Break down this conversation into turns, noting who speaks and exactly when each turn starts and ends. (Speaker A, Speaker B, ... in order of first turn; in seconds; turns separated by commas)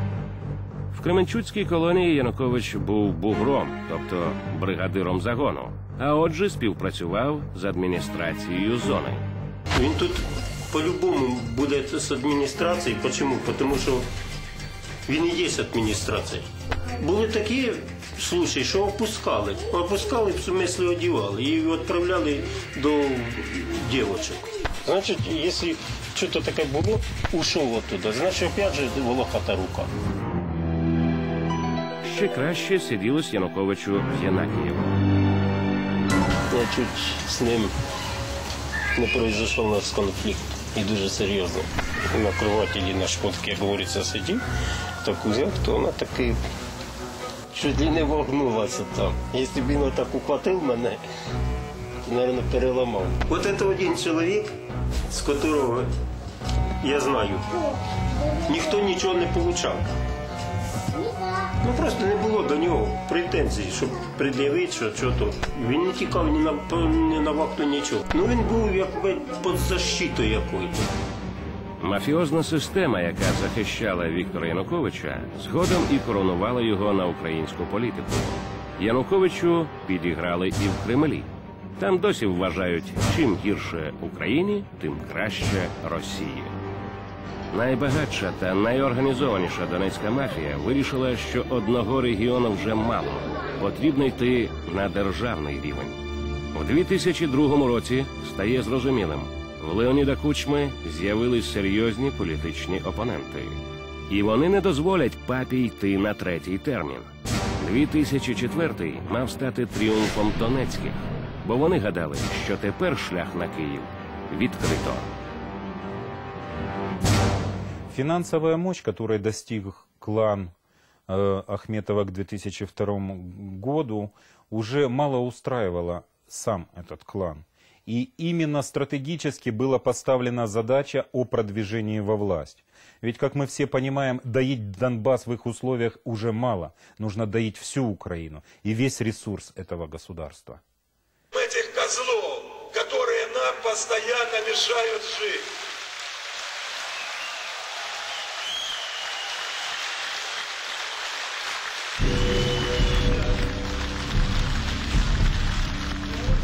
Speaker A: 0.9-9.2, Speaker B: 9.8-14.1, Speaker B: 15.1-16.5, Speaker B: 17.0-29.9, Speaker A: 32.0-34.9, Speaker B: 36.5-37.7, Speaker B: 39.0-44.4, Speaker B: 45.0-46.4, Speaker B: 47.5-51.0, Speaker B: 52.1-54.5, Speaker B: 55.1-55.9, Speaker B: 56.8-57.5, Speaker B: 58.5-59.9, Speaker B: 61.6-70.9, Speaker A: 71.8-86.5, Speaker A: 87.5-96.0, Speaker A: 96.5-115.1, Speaker C: 117.9-120.5, Speaker C: 121.1-140.6, Speaker D: 141.4-145.3